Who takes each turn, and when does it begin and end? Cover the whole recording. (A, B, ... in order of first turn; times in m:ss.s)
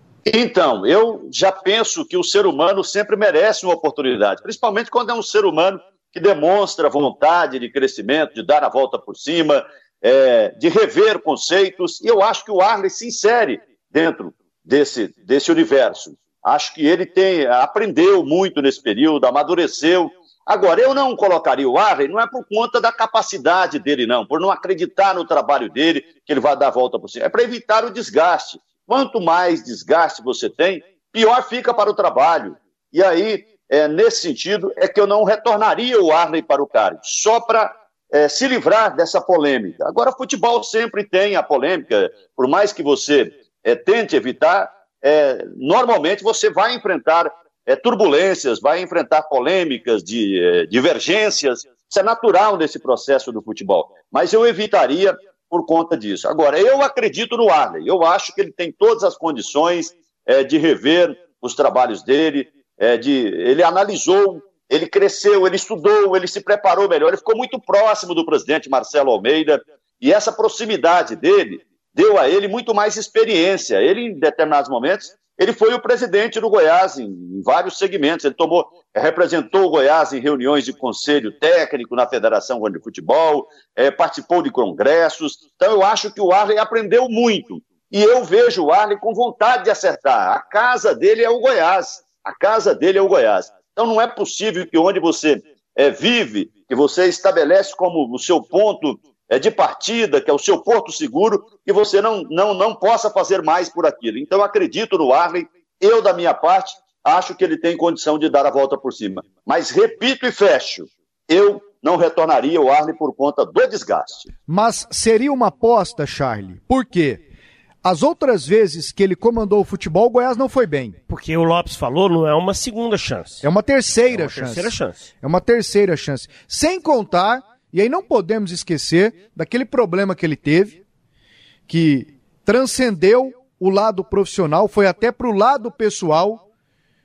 0:00.3-1:54.3 A
1:54.5-1:57.2 B
1:57.8-2:01.0 B
2:01.1-2:03.4 C
2:03.4-2:10.8 B
2:04.1-2:05.0 C
2:11.7-2:16.4 B